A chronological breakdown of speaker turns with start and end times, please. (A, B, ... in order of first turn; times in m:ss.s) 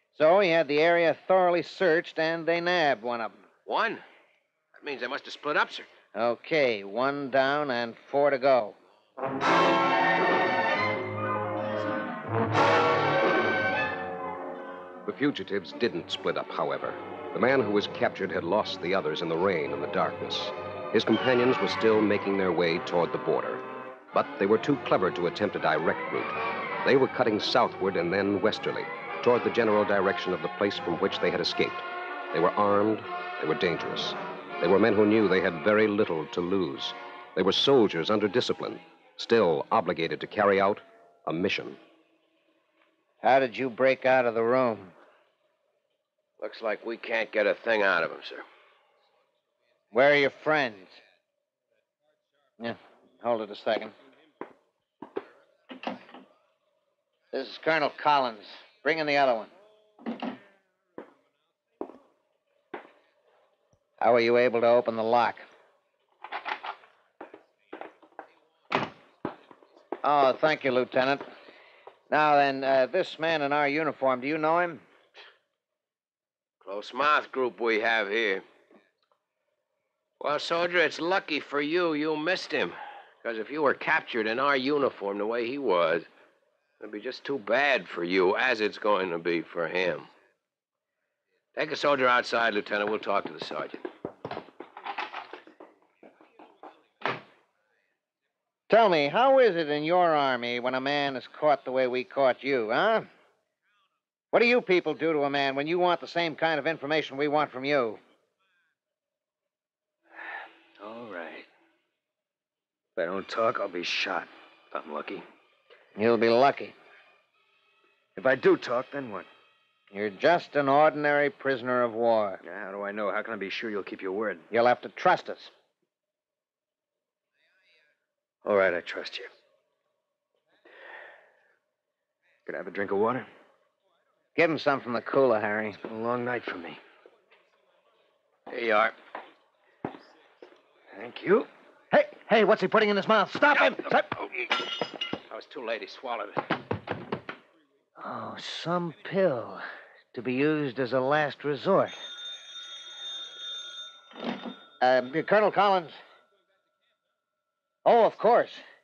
0:00.1-0:03.3 A
0:03.6-0:04.0 B
0:04.8-0:05.9 B
0:06.1-0:08.7 A
0:15.0-0:41.8 C
0:43.2-0:44.9 A
0:46.4-0:48.4 B
0:49.9-0:51.0 A
0:52.6-0:53.9 A
0:57.3-0:59.5 A
1:04.0-1:05.4 A
1:10.0-1:11.3 A
1:12.1-1:14.8 A
1:16.6-1:18.4 B
1:20.2-1:26.1 B
1:26.8-1:30.1 B
1:31.5-1:33.8 B
1:38.7-1:43.1 A
1:44.3-1:48.0 A
1:50.8-1:51.4 D
1:53.0-1:55.2 D
1:56.0-1:56.7 A
1:58.2-1:59.3 D
1:59.9-2:02.4 A
2:02.4-2:04.4 D
2:04.5-2:05.5 A
2:08.4-2:09.3 D
2:12.4-2:13.3 D
2:14.4-2:15.8 A
2:15.8-2:16.8 D
2:18.5-2:18.9 B
2:20.9-2:21.5 D
2:21.9-2:24.1 A
2:25.3-2:26.4 B
2:28.0-2:32.0 A
2:34.8-2:36.0 A
2:37.8-2:38.6 A